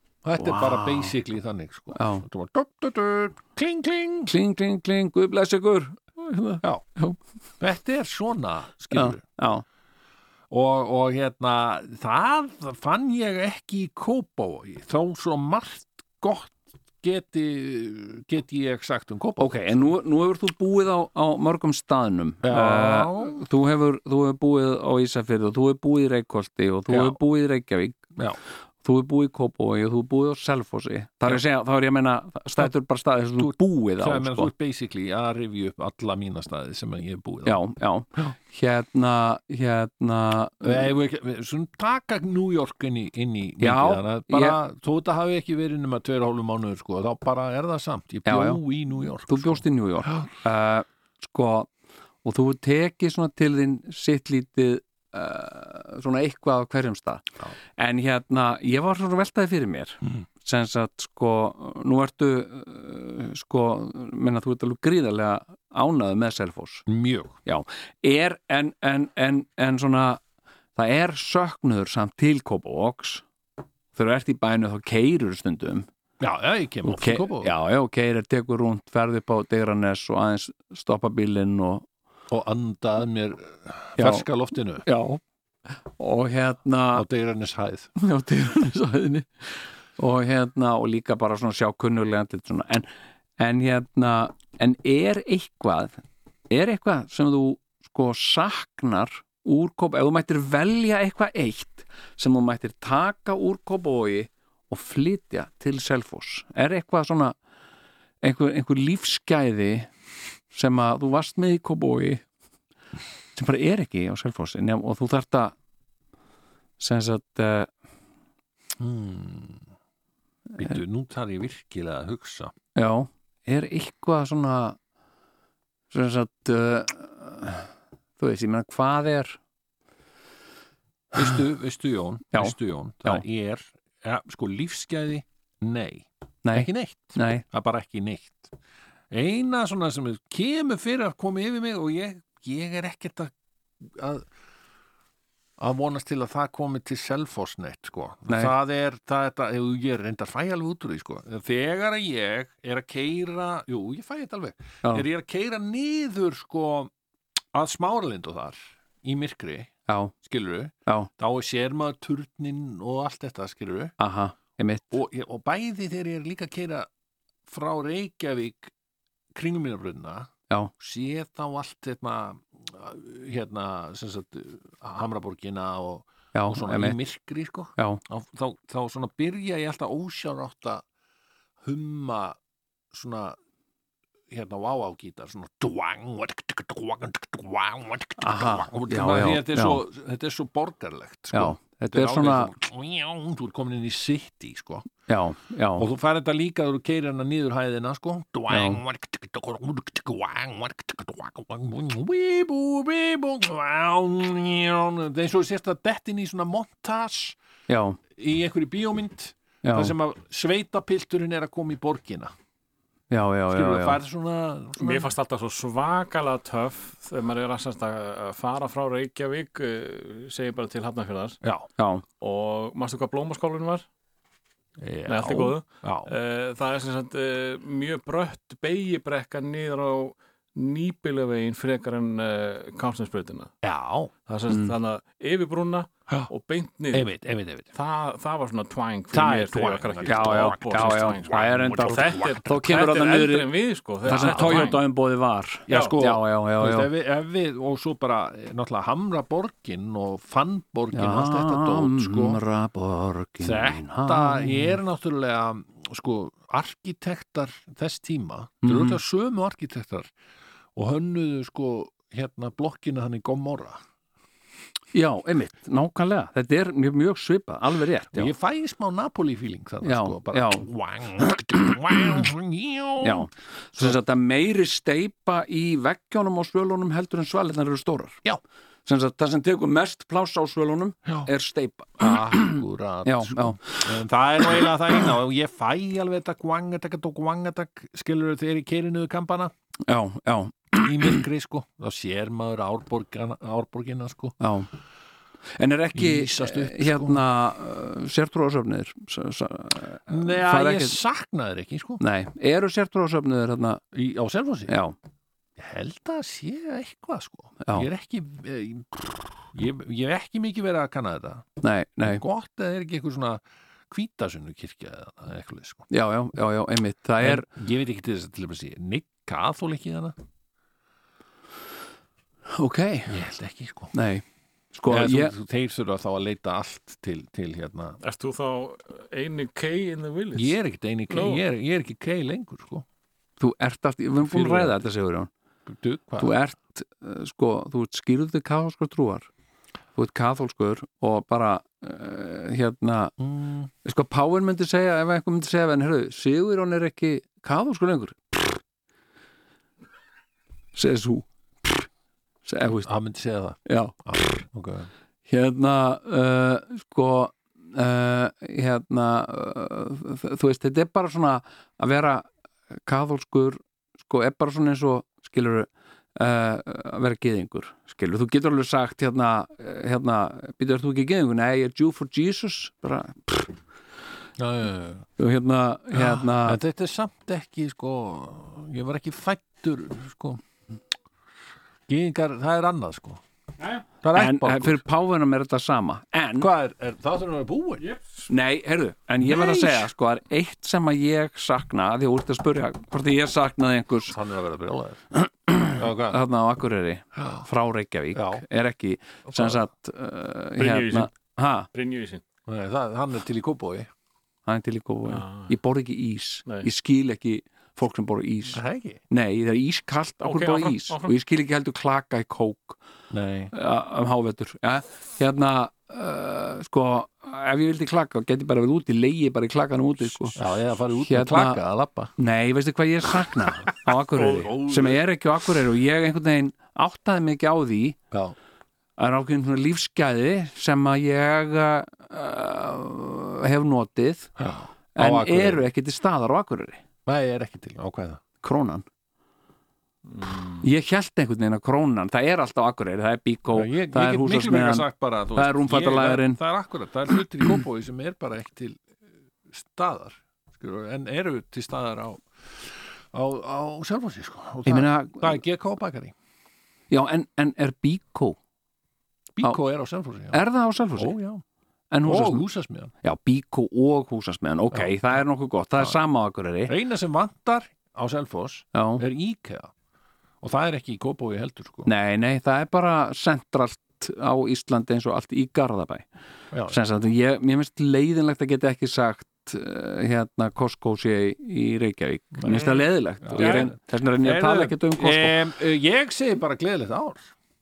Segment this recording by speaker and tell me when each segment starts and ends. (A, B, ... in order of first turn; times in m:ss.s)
0:00.2-0:04.3 A
0:00.4-0:01.1 B
0:01.9-0:02.2 B
0:04.3-0:07.2 B
0:07.6-0:09.2 A
0:08.9-0:09.6 B
0:10.5-0:19.8 A
0:19.4-0:28.0 B
0:22.4-0:23.4 A
0:26.9-0:27.2 A
0:28.8-0:34.5 B
0:33.4-0:37.6 A
0:37.4-0:40.9 B
0:40.6-0:50.3 A
0:43.6-0:44.6 B
0:48.2-0:48.6 B
0:49.3-0:51.7 B
0:52.2-0:57.2 B
0:57.8-1:06.8 B
1:06.9-1:07.4 A
1:07.4-1:10.2 B
1:10.8-1:13.2 B
1:13.9-1:15.9 B
1:16.2-1:17.5 A
1:16.8-1:21.8 B
1:22.3-1:24.8 A
1:24.0-1:24.2 B
1:24.8-1:25.2 B
1:26.0-1:27.0 B
1:26.9-1:27.9 A
1:28.0-1:36.0 B
1:36.5-1:47.4 B
1:48.2-1:49.9 B
1:50.5-1:52.2 B
1:53.3-1:55.5 B
1:56.8-1:57.7 B
1:58.8-1:59.6 A
2:00.6-2:02.5 A
2:02.8-2:04.8 B
2:05.9-2:09.4 B
2:11.1-2:18.5 A
2:12.3-2:13.2 B
2:16.4-2:17.4 B
2:19.1-2:24.3 A
2:25.6-2:36.9 A
2:37.5-2:43.9 A
2:39.9-2:40.1 B
2:44.0-2:44.9 B
2:44.9-2:46.9 A
2:47.5-2:48.7 A
2:49.3-3:00.8 A
2:56.3-2:57.0 B
3:01.6-3:02.4 A
3:02.9-3:03.4 A
3:04.3-3:14.9 A
3:08.2-3:09.8 B
3:11.3-3:12.5 B
3:15.1-3:15.8 B
3:15.8-3:27.4 A
3:18.5-3:18.8 B
3:27.7-3:28.0 B
3:28.1-3:32.3 A
3:29.6-3:29.9 B
3:33.1-3:34.0 B
3:33.5-3:35.1 A
3:34.8-3:41.4 C
3:41.4-3:41.7 A
3:41.8-3:42.0 B
3:42.2-3:43.8 C
3:44.8-3:46.1 A
3:45.0-3:53.5 C
3:53.6-3:54.1 A
3:54.3-3:57.1 C
3:56.9-3:57.7 A
3:57.7-4:04.8 C
3:59.1-4:02.9 A
4:00.1-4:03.5 B
4:04.0-4:04.8 A
4:04.0-4:06.9 B
4:05.7-4:12.4 A
4:05.7-4:06.0 C
4:10.9-4:14.8 B
4:13.4-4:20.1 A
4:18.6-4:19.0 B
4:20.7-4:23.8 A
4:24.9-4:28.3 B
4:28.1-4:34.0 A
4:29.8-4:30.6 B
4:33.0-4:38.2 B
4:38.8-4:43.8 B
4:42.0-4:49.5 A
4:49.8-4:51.2 B
4:50.8-4:54.4 A
4:54.4-4:54.7 B
4:55.6-5:01.0 B
4:55.9-4:57.2 A
5:00.1-5:02.0 A
5:02.0-5:03.8 B
5:03.9-5:04.8 A
5:04.7-5:05.0 B
5:05.6-5:11.4 A
5:07.6-5:07.9 B
5:11.6-5:12.2 B
5:12.0-5:15.9 A
5:15.9-5:17.4 B
5:17.2-5:20.1 A
5:22.5-5:23.2 B
5:23.1-5:23.9 A
5:23.9-5:25.3 B
5:24.9-5:28.0 A
5:28.0-5:30.5 C
5:30.3-5:32.8 A
5:31.1-5:31.4 C
5:33.4-5:35.3 B
5:34.2-5:34.7 A
5:35.7-5:36.3 A
5:36.2-5:39.3 B
5:39.9-5:43.2 B
5:43.2-5:43.7 A
5:43.8-5:48.6 B
5:50.7-5:51.9 B
5:52.4-5:52.9 B
5:52.8-5:54.9 A
5:53.6-5:54.0 B
5:55.3-6:02.2 B
6:02.8-6:13.5 B
6:14.4-6:15.1 A
6:15.2-6:16.6 B
6:15.9-6:20.4 A
6:21.9-6:23.2 A
6:24.0-6:24.8 A
6:24.1-6:26.5 B
6:26.4-6:27.9 A
6:28.3-6:34.2 B
6:29.2-6:29.9 A
6:34.1-6:35.0 A
6:35.1-6:41.7 B
6:35.7-6:36.2 A
6:37.1-6:37.4 A
6:38.1-6:38.4 A
6:39.2-6:39.6 A
6:40.6-6:41.1 C
6:41.7-6:42.2 C
6:42.4-6:43.9 A
6:44.4-6:52.8 B
6:45.1-6:45.5 C
6:48.5-6:49.0 A
6:50.2-6:51.1 C
6:53.1-6:53.5 A
6:53.5-7:00.4 B
7:00.4-7:02.1 A
7:01.0-7:01.6 B
7:02.2-7:08.0 B
7:04.1-7:05.0 A
7:08.1-7:08.4 A
7:09.0-7:14.3 B
7:14.4-7:15.7 A
7:15.0-7:16.8 B
7:17.0-7:18.2 A
7:18.4-7:18.8 B
7:20.1-7:20.6 C
7:20.6-7:26.4 B
7:23.5-7:28.8 A
7:29.5-7:36.1 A
7:34.6-7:35.4 B
7:36.9-7:38.4 B
7:39.3-7:40.4 A
7:40.3-7:41.2 B
7:41.0-7:41.4 A
7:41.9-7:42.4 B
7:42.0-7:42.9 A
7:43.0-7:46.7 B
7:46.7-7:49.7 A
7:48.7-7:49.0 B
7:50.4-7:51.9 A
7:51.8-7:56.0 B
7:56.5-7:56.8 A
7:56.7-8:05.4 B
8:02.4-8:07.3 A
8:02.5-8:02.8 C
8:03.4-8:03.7 C